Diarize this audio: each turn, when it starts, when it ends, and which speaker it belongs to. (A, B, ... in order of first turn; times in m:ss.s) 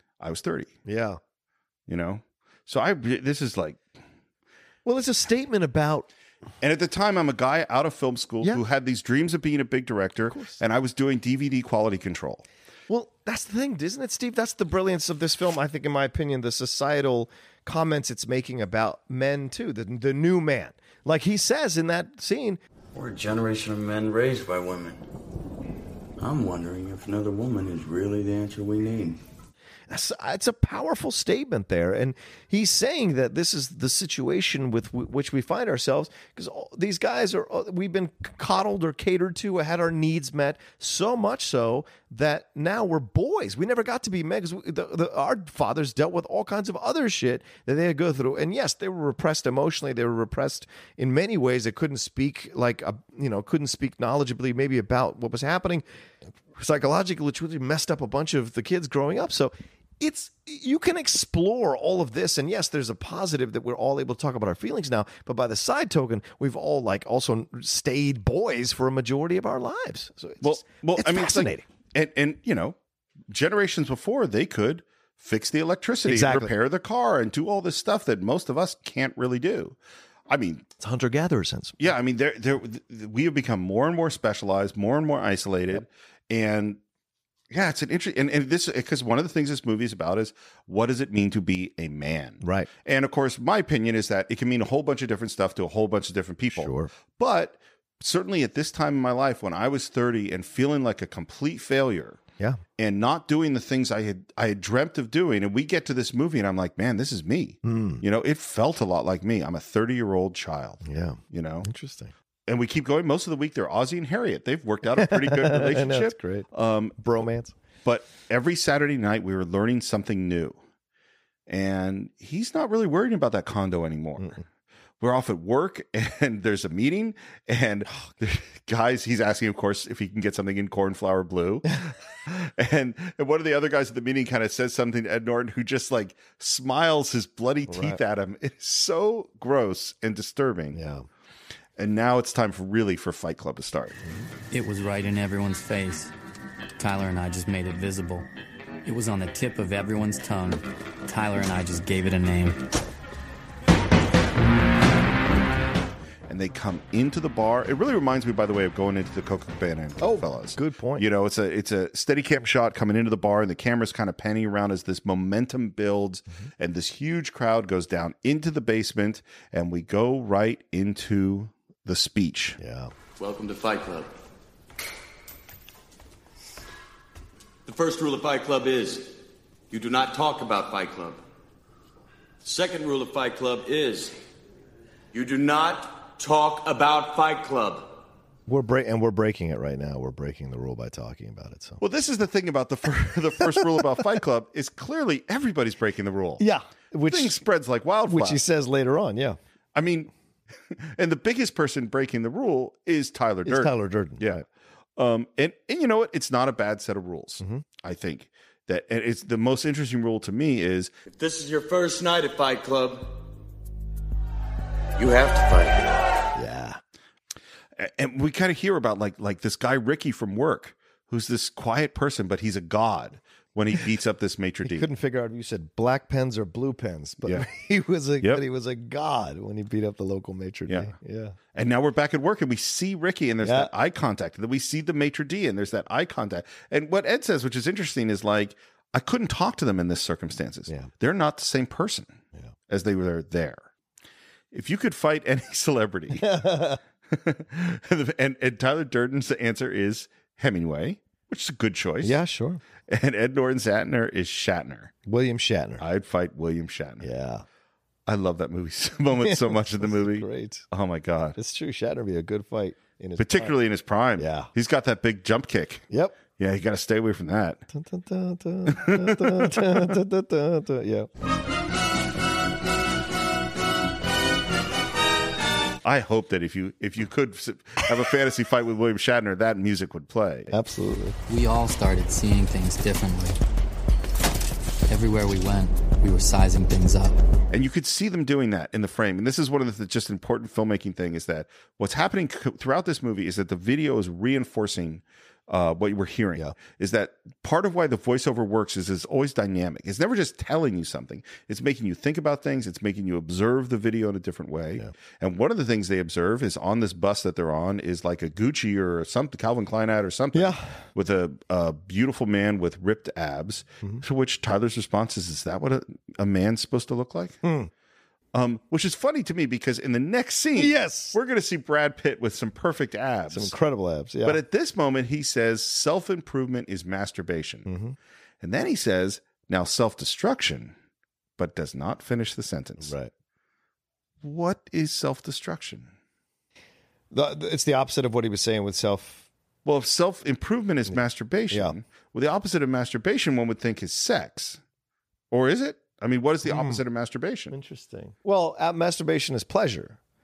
0:00.2-0:00.7 A
0:00.8-0:01.2 B
0:01.9-0:03.8 A
0:04.8-0:06.1 B
0:06.6-0:12.4 A
0:10.3-0:10.6 B
0:12.9-0:22.6 B
0:22.9-0:25.0 C
0:26.2-0:29.2 C
0:29.9-0:55.8 B
0:56.5-1:11.6 B
1:10.4-1:12.8 A
1:13.3-1:19.8 A
1:16.0-1:16.5 B
1:20.3-1:20.6 A
1:20.8-1:21.9 B
1:21.8-1:26.8 A
1:27.5-1:42.2 A
1:32.4-1:32.7 B
1:36.5-1:36.9 B
1:42.8-1:51.7 A
1:47.6-1:48.0 B
1:50.8-1:52.1 B
1:52.5-1:57.0 A
1:54.9-1:57.5 B
1:57.8-2:00.6 A
2:01.5-2:04.4 A
2:05.0-2:20.8 A
2:17.7-2:18.0 B
2:20.7-2:21.1 B
2:21.8-2:24.0 A
2:24.0-2:24.3 B
2:24.5-2:26.1 D
2:26.8-2:28.3 D
2:28.8-2:32.6 D
2:36.3-2:52.6 A
2:40.0-2:41.0 B
2:52.6-2:52.9 B
2:53.2-2:54.1 E
2:57.6-2:59.1 E
2:59.7-3:01.2 E
3:02.4-3:04.1 E
3:05.1-3:07.9 E
3:08.5-3:11.8 B
3:11.8-3:16.4 A
3:13.4-3:14.0 B
3:16.4-3:17.4 B
3:17.0-3:18.4 A
3:18.0-3:19.4 B
3:19.7-3:20.1 A
3:20.7-3:24.4 A
3:23.4-3:24.4 B
3:25.0-3:30.9 A
3:31.1-3:33.2 E
3:35.0-3:36.0 E
3:36.3-3:36.8 B
3:37.8-3:44.9 A
3:44.6-3:51.4 B
3:47.2-3:47.5 A
3:50.7-3:50.9 A
3:51.5-4:03.7 A
3:53.4-3:53.7 B
4:04.5-4:06.4 A
4:06.1-4:06.8 B
4:07.1-4:12.2 A
4:12.0-4:12.6 B
4:12.9-4:14.9 A
4:15.0-4:15.8 B
4:15.8-4:17.1 A
4:17.0-4:17.4 B
4:18.1-4:21.4 A
4:19.2-4:20.6 B
4:21.4-4:23.5 B
4:23.2-4:27.6 A
4:24.2-4:24.5 B
4:25.9-4:26.2 B
4:27.7-4:31.1 B
4:28.7-4:29.9 A
4:35.8-4:40.5 A
4:40.5-4:41.2 B
4:41.3-4:43.4 D
4:44.9-4:47.2 D
4:47.5-5:17.4 A
5:10.3-5:10.7 B
5:17.4-5:17.7 B
5:18.3-5:23.5 A
5:20.6-5:21.2 B
5:23.3-5:24.4 B
5:24.2-5:27.7 A
5:27.6-5:28.0 B
5:28.4-5:30.7 A
5:31.4-5:32.9 A
5:32.8-5:33.1 B
5:34.2-5:35.9 A
5:37.1-5:39.3 B
5:39.6-5:44.6 A
5:41.5-5:41.8 B
5:45.3-5:47.5 A
5:46.4-5:46.8 B
5:47.5-5:50.0 B